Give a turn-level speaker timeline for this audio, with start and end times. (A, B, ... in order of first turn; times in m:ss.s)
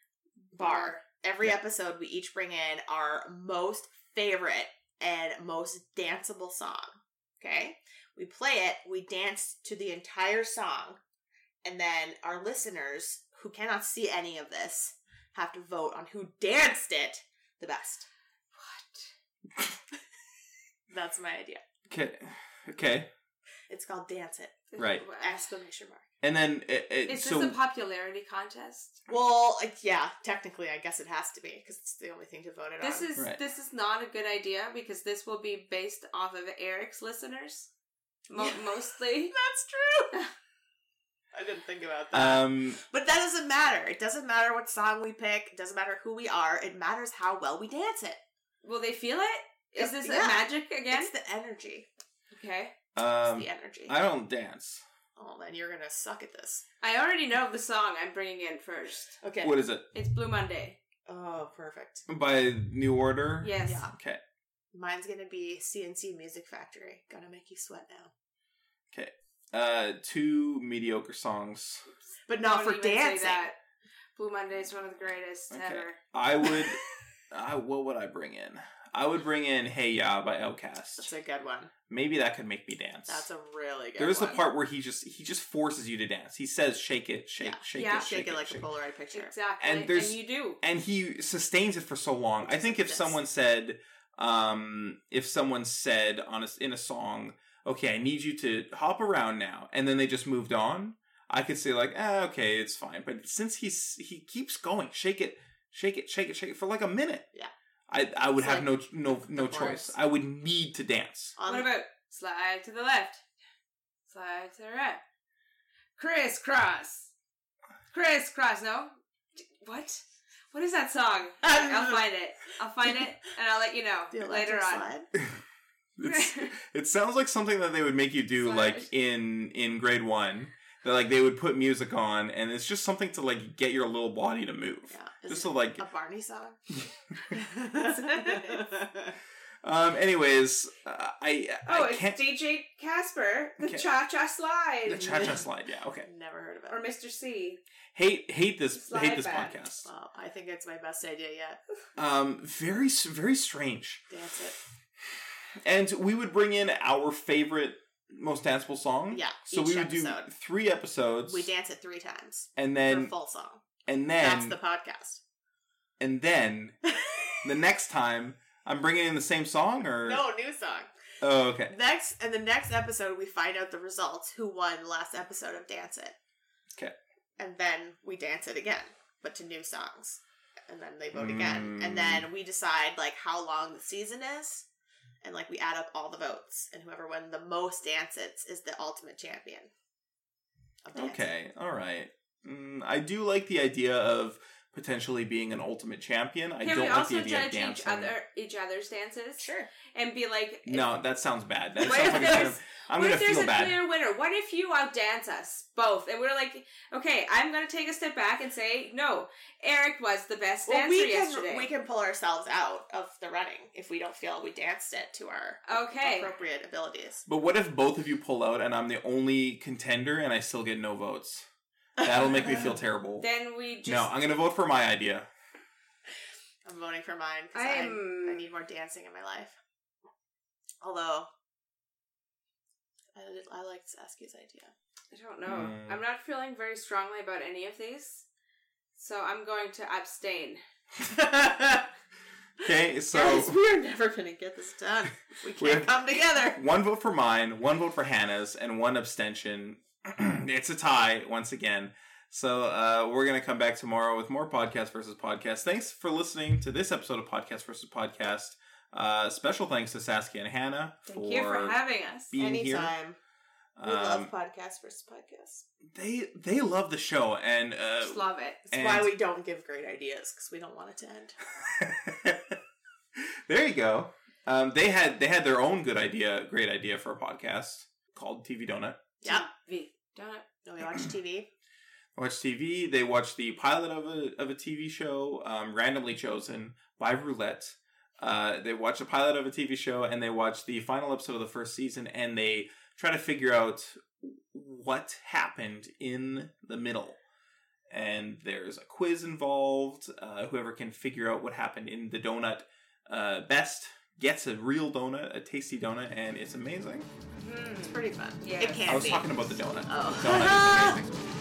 0:00.5-0:01.0 A
0:00.6-0:11.0 B
0:11.6-0:18.1 B
0:18.5-0:19.1 A
0:20.9-0:21.6 B
0:21.9-0:23.1 C
0:23.7-0:24.6 B
0:24.7-0:25.4 A
0:24.8-0:25.0 C
0:25.2-0:26.1 B
0:26.2-0:27.6 C
0:27.1-0:29.0 A
0:29.1-0:33.1 B
0:32.8-0:37.7 A
0:38.3-0:39.3 A
0:38.4-0:40.2 B
0:41.3-0:48.2 B
0:42.1-0:42.8 C
0:48.6-0:51.1 A
0:49.8-0:51.9 B
0:52.3-0:52.7 A
0:52.9-0:54.8 C
0:53.2-0:54.0 B
0:55.2-0:56.6 B
0:56.8-0:59.2 A
0:59.2-0:59.6 B
0:59.4-0:59.8 C
0:59.9-1:00.8 A
1:01.1-1:02.0 B
1:02.1-1:04.2 C
1:03.4-1:03.9 A
1:03.6-1:03.9 B
1:04.7-1:08.1 B
1:08.9-1:11.8 C
1:12.3-1:13.5 B
1:12.3-1:13.6 A
1:14.2-1:16.0 A
1:15.5-1:21.1 C
1:21.0-1:21.7 B
1:21.9-1:23.2 C
1:23.0-1:24.4 B
1:24.0-1:28.6 C
1:27.4-1:29.3 B
1:27.7-1:28.1 A
1:29.1-1:30.6 A
1:29.6-1:47.3 C
1:32.4-1:33.2 B
1:47.9-1:51.4 C
1:48.3-1:50.0 B
1:51.4-1:51.7 B
1:51.4-1:53.2 A
1:54.1-1:55.0 A
1:56.0-1:57.1 A
1:57.9-2:04.9 A
2:01.4-2:02.0 B
2:04.1-2:05.1 B
2:05.1-2:05.4 C
2:06.0-2:15.8 C
2:06.0-2:06.5 A
2:08.4-2:08.9 A
2:14.9-2:16.6 B
2:17.3-2:19.1 B
2:17.9-2:18.6 A
2:19.6-2:22.2 C
2:21.6-2:25.4 A
2:23.6-2:23.9 C
2:24.8-2:26.1 C
2:26.0-2:26.9 B
2:26.7-2:27.6 A
2:27.9-2:29.9 C
2:28.7-2:29.6 A
2:29.8-2:31.6 B
2:32.0-2:34.0 C
2:34.1-2:34.6 B
2:35.6-2:41.5 C
2:39.1-2:40.3 B
2:41.3-2:43.6 B
2:42.6-2:43.1 C
2:43.8-2:44.6 C
2:44.2-2:45.2 B
2:46.0-2:46.7 C
2:46.8-2:47.4 B
2:47.4-2:50.2 C
2:50.0-2:50.9 B
2:51.2-2:51.7 C
2:51.7-2:56.2 B
2:57.4-3:04.6 B
3:01.1-3:02.2 C
3:05.2-3:09.7 B
3:10.8-3:11.3 B
3:10.9-3:18.1 C
3:16.6-3:20.9 A
3:19.4-3:19.7 B
3:20.6-3:23.8 C
3:21.8-3:31.7 A
3:30.6-3:37.2 B
3:35.6-3:36.3 A
3:37.2-3:41.4 C
3:42.0-3:42.7 B
3:42.0-3:43.2 C
3:43.2-3:44.1 A
3:43.8-3:45.3 C
3:46.6-3:49.6 B
3:47.5-3:48.4 A
3:50.8-3:51.3 B
3:53.1-3:54.7 B
3:55.1-3:58.3 A
3:55.4-3:56.0 C
3:59.0-4:00.6 A
4:01.0-4:01.8 B
4:02.6-4:03.6 C
4:03.1-4:06.6 B
4:05.6-4:21.8 C
4:21.1-4:22.3 A
4:22.3-4:22.9 C
4:22.4-4:23.2 B
4:23.8-4:24.3 C
4:23.8-4:25.6 B
4:25.9-4:29.1 C
4:28.0-4:28.6 A
4:28.7-4:31.4 B
4:31.6-4:32.6 C
4:33.2-4:39.0 C
4:39.2-4:39.5 B
4:39.2-4:40.4 A
4:40.6-4:41.5 B
4:40.8-4:41.1 C
4:42.2-4:57.2 C
4:57.9-5:07.1 C
5:07.4-5:09.1 A
5:07.8-5:11.0 B
5:08.9-5:11.1 C